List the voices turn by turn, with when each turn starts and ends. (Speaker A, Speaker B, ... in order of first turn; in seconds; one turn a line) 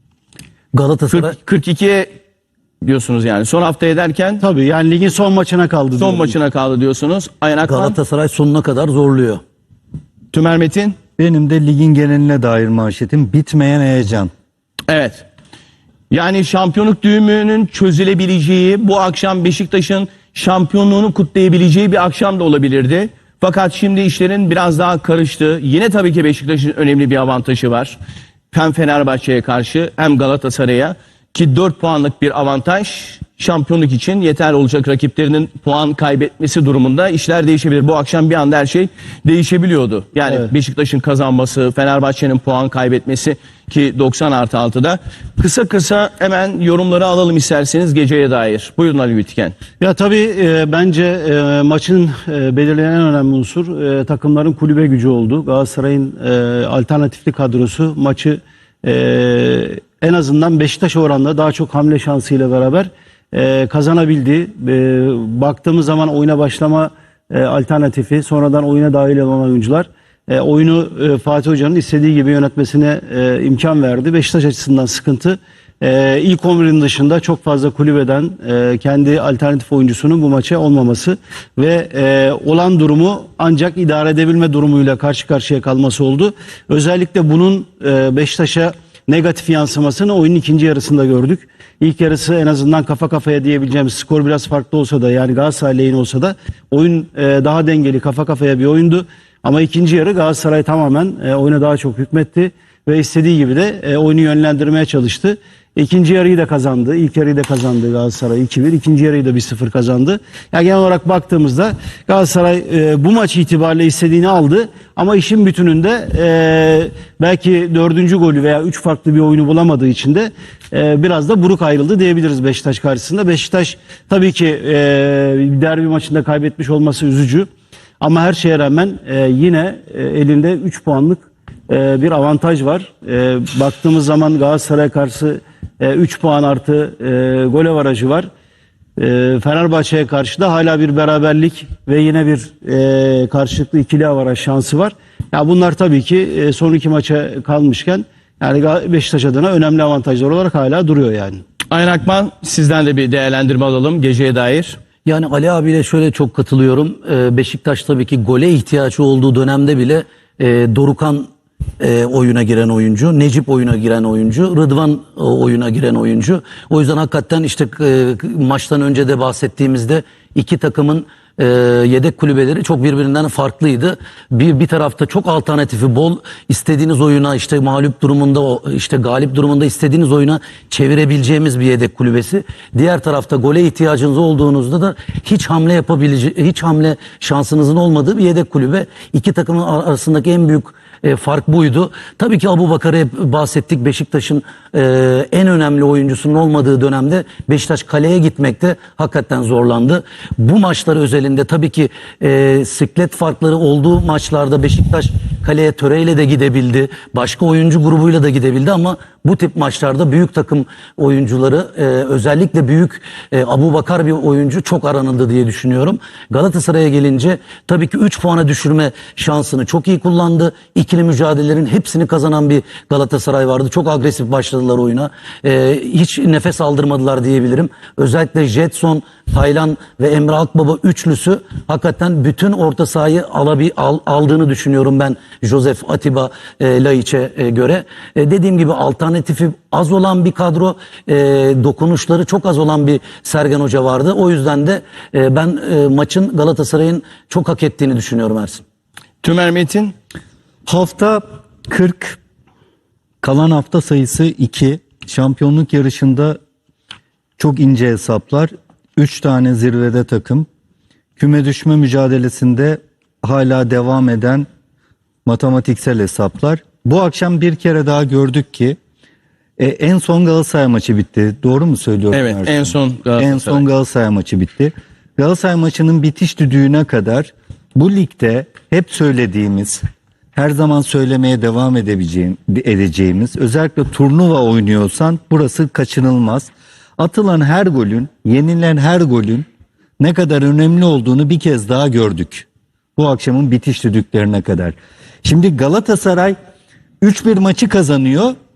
Speaker A: 0.7-1.4
Speaker B: 1.1-2.1
Speaker B: 2.8-4.4
Speaker C: 4.4-6.3
Speaker B: 6.0-8.0
Speaker A: 7.7-9.4
Speaker B: 10.3-11.0
Speaker D: 11.2-14.3
Speaker B: 14.9-15.3
Speaker B: 16.1-28.0
Speaker B: 28.5-49.5
Speaker C: 49.8-127.5
Speaker C: 128.0-138.3
Speaker C: 139.0-151.4
Speaker B: 151.7-154.8
Speaker A: 155.1-161.3
Speaker A: 161.8-248.6
Speaker B: 249.2-249.9
Speaker D: 250.7-252.2
Speaker D: 253.2-256.4
Speaker D: 257.4-260.5
Speaker D: 261.2-264.5
Speaker D: 265.3-268.8
Speaker D: 269.6-279.8
Speaker B: 272.1-273.6
Speaker D: 280.4-289.4
Speaker D: 290.0-296.4
Speaker D: 297.0-298.3